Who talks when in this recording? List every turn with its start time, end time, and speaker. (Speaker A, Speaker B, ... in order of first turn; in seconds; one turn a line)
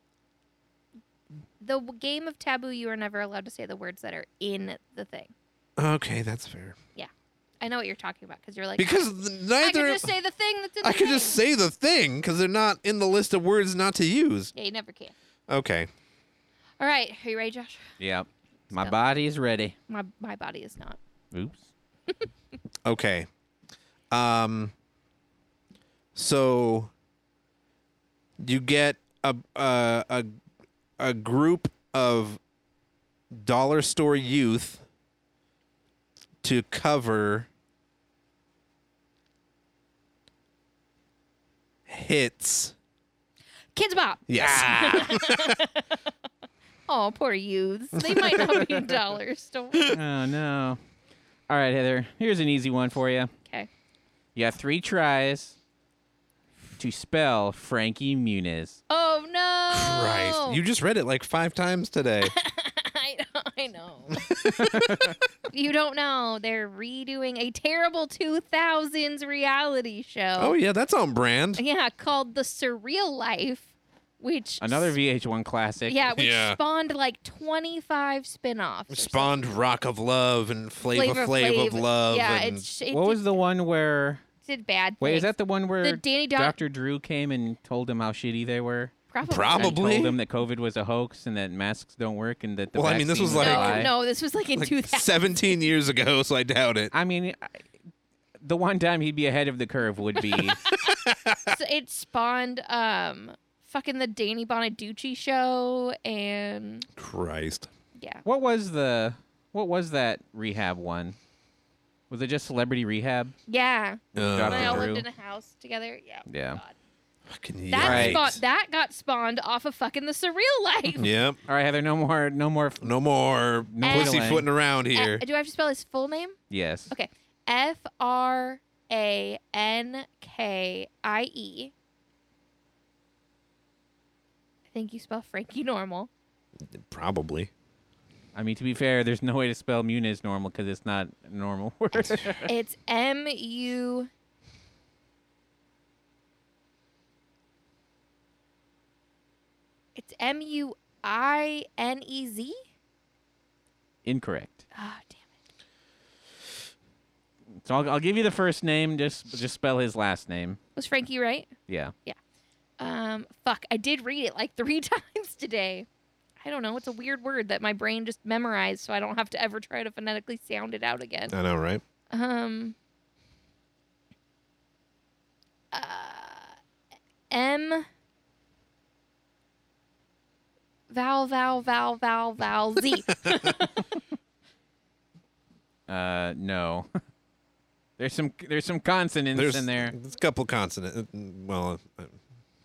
Speaker A: 1.6-5.3
Speaker B: 5.8-6.8
Speaker A: 7.6-11.4
Speaker B: 8.8-10.1
Speaker B: 10.8-14.5
Speaker A: 14.5-15.1
Speaker B: 15.5-15.9
Speaker A: 16.8-17.9
Speaker C: 18.0-19.7
Speaker A: 19.9-21.0
Speaker C: 21.3-21.7
Speaker B: 22.8-23.3
Speaker B: 24.1-24.7
Speaker B: 26.1-26.9
Speaker B: 28.4-30.3
Speaker B: 31.0-32.4
Speaker B: 33.3-34.8
Speaker B: 36.4-37.5
Speaker B: 41.9-42.7
Speaker A: 43.7-46.0
Speaker B: 44.3-45.6
Speaker A: 46.9-49.9
Speaker B: 48.0-48.6
Speaker C: 49.9-50.8
Speaker C: 51.5-53.3
Speaker C: 54.3-55.6
Speaker C: 56.8-58.8
Speaker A: 58.9-60.6
Speaker B: 59.7-62.3
Speaker A: 62.2-70.5
Speaker B: 64.3-64.9
Speaker B: 70.4-71.6
Speaker A: 71.6-75.0
Speaker C: 74.6-76.0
Speaker A: 75.9-79.3
Speaker B: 76.2-76.6
Speaker B: 78.9-82.7
Speaker A: 80.9-83.4
Speaker C: 82.9-84.2
Speaker A: 84.4-86.6
Speaker C: 85.0-88.9
Speaker A: 89.1-90.0
Speaker B: 89.2-90.2
Speaker C: 89.5-93.9
Speaker B: 92.7-93.9
Speaker A: 93.3-95.6
Speaker B: 94.5-96.9
Speaker C: 96.9-97.6
Speaker C: 98.4-100.6
Speaker A: 100.3-106.9
Speaker B: 100.7-101.5
Speaker B: 107.0-107.7
Speaker A: 108.0-108.2
Speaker C: 108.2-111.2
Speaker C: 112.1-113.3
Speaker A: 113.5-116.7
Speaker B: 114.1-114.9
Speaker C: 114.2-115.0
Speaker C: 116.3-116.6
Speaker B: 117.3-118.4
Speaker A: 117.7-121.1
Speaker C: 117.8-118.2
Speaker B: 121.0-121.4
Speaker C: 121.5-122.9
Speaker B: 122.8-125.2
Speaker C: 123.7-124.5
Speaker A: 123.8-124.2
Speaker A: 124.9-126.3
Speaker C: 126.5-126.9
Speaker A: 126.9-131.7
Speaker A: 134.7-136.1
Speaker B: 136.7-137.5
Speaker C: 138.3-142.5
Speaker B: 142.0-142.3
Speaker A: 142.4-144.1
Speaker A: 149.9-152.6
Speaker C: 154.0-154.6
Speaker A: 154.7-155.3
Speaker C: 157.6-160.6
Speaker A: 160.8-161.5
Speaker C: 161.7-161.9
Speaker A: 162.8-165.9
Speaker A: 166.4-171.3
Speaker B: 171.3-171.8
Speaker A: 172.1-172.8
Speaker A: 175.7-176.6
Speaker A: 177.3-177.9
Speaker A: 180.9-183.8
Speaker C: 185.9-186.9
Speaker C: 188.0-189.9
Speaker B: 189.3-192.2